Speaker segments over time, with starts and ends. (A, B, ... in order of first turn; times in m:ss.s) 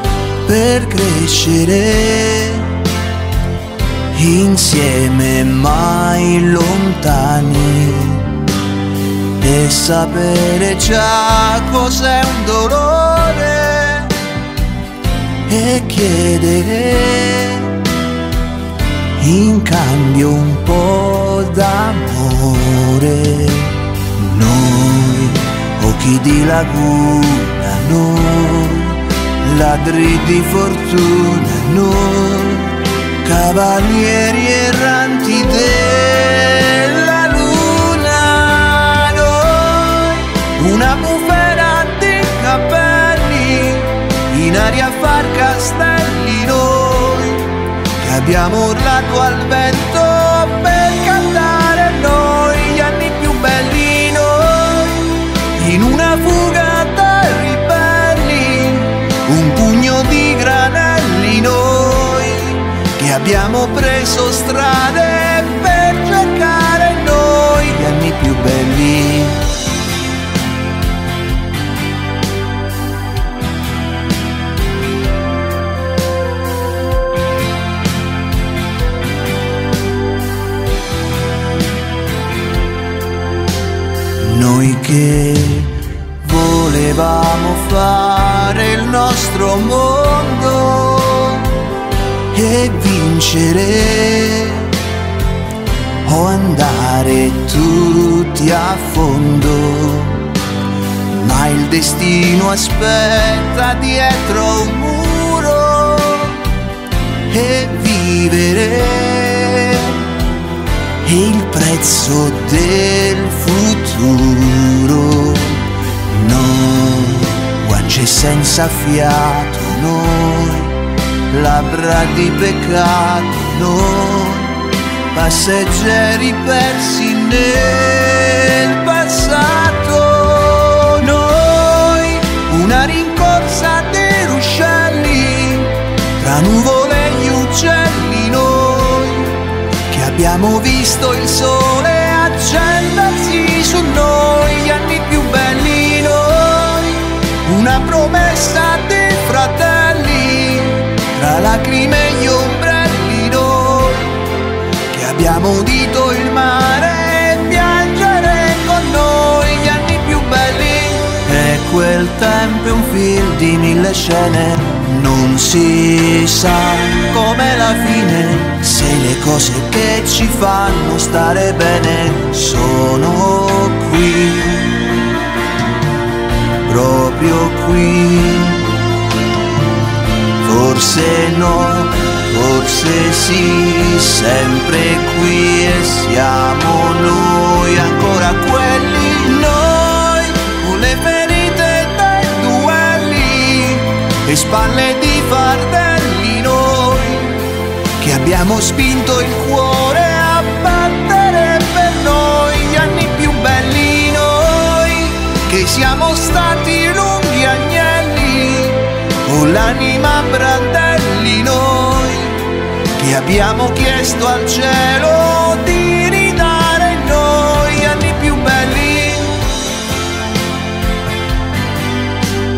0:00.4-0:02.8 A
0:04.1-0:08.5 A
0:09.4-0:14.2 A
0:15.4-0:17.9 A
0:19.2-1:09.5 A
1:24.2-1:31.6 A
1:32.3-1:34.8 A
1:36.0-1:40.3 A
1:41.1-1:46.5 A
1:47.3-1:50.1 A
1:51.0-2:34.3 A
2:34.9-2:55.0 A
2:56.6-2:58.8 A
3:00.4-3:39.4 A